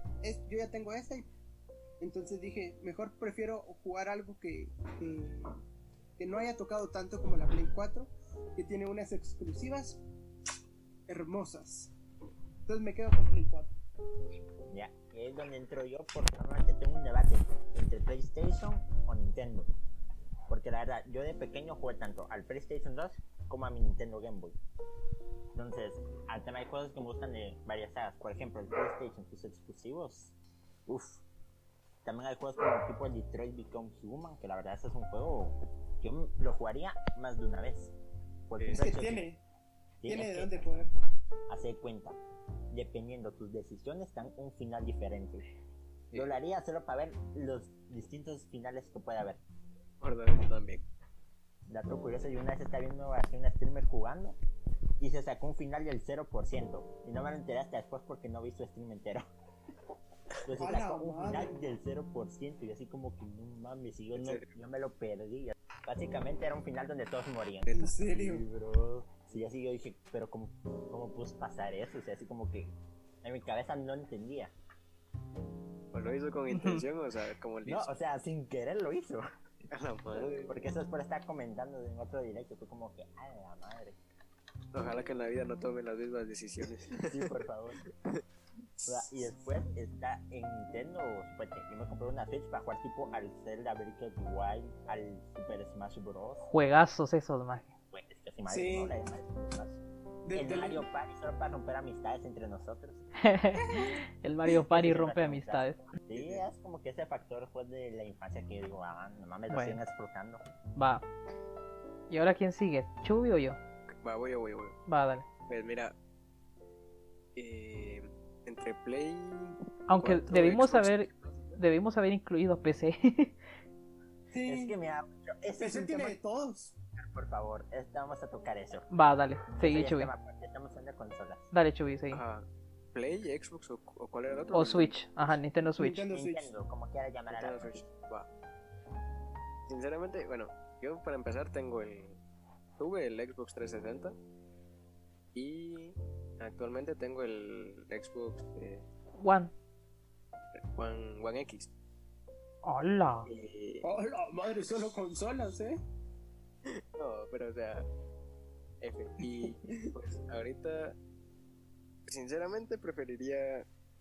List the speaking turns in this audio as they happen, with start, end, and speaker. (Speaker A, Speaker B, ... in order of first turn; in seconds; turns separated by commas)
Speaker A: 0.2-1.3, Speaker A: 2.0-5.6, Speaker A: 6.2-10.0, Speaker A: 11.1-11.9, Speaker A: 12.7-13.7, Speaker B: 14.7-19.7, Speaker B: 20.5-24.6, Speaker B: 25.5-30.3, Speaker B: 30.9-31.2, Speaker B: 32.0-37.9, Speaker B: 38.5-39.2, Speaker C: 38.6-38.9, Speaker A: 38.7-39.4, Speaker B: 40.0-40.5, Speaker A: 40.0-40.9, Speaker B: 41.5-42.2, Speaker B: 42.7-45.4, Speaker B: 46.1-49.4, Speaker C: 50.0-50.8, Speaker B: 51.7-54.4, Speaker B: 55.0-59.2, Speaker B: 60.4-74.5, Speaker A: 60.5-61.5, Speaker C: 64.1-64.5, Speaker A: 67.7-68.4, Speaker C: 75.9-77.9, Speaker D: 76.5-76.8, Speaker B: 77.6-79.2, Speaker C: 79.7-80.5, Speaker B: 80.1-84.0, Speaker C: 84.7-87.3, Speaker B: 87.0-87.8, Speaker B: 88.8-96.5, Speaker D: 96.4-97.7, Speaker B: 97.9-99.8, Speaker A: 98.5-98.9, Speaker A: 100.2-100.8, Speaker B: 100.3-103.0, Speaker D: 103.2-105.8, Speaker B: 104.7-110.4, Speaker C: 106.1-106.4, Speaker D: 109.5-109.8, Speaker D: 110.7-111.0, Speaker D: 112.1-113.6, Speaker C: 114.0-114.8, Speaker D: 114.9-115.3, Speaker C: 115.5-115.9, Speaker C: 117.3-121.6, Speaker D: 119.9-123.3, Speaker A: 124.3-124.8, Speaker B: 124.5-126.2, Speaker A: 125.6-126.7, Speaker B: 127.0-128.9, Speaker D: 128.9-130.1, Speaker B: 129.6-131.5, Speaker D: 131.5-132.2, Speaker C: 132.1-134.9, Speaker D: 134.5-136.0, Speaker A: 135.8-136.5, Speaker B: 136.1-137.8, Speaker C: 137.3-138.3, Speaker C: 139.7-142.2, Speaker C: 142.8-144.2, Speaker C: 145.3-148.8, Speaker D: 149.2-149.5, Speaker C: 150.7-151.7, Speaker D: 152.6-153.3, Speaker C: 153.3-153.9, Speaker A: 153.8-155.8, Speaker C: 156.9-157.8, Speaker C: 158.8-160.9, Speaker A: 159.4-159.7, Speaker C: 162.1-163.7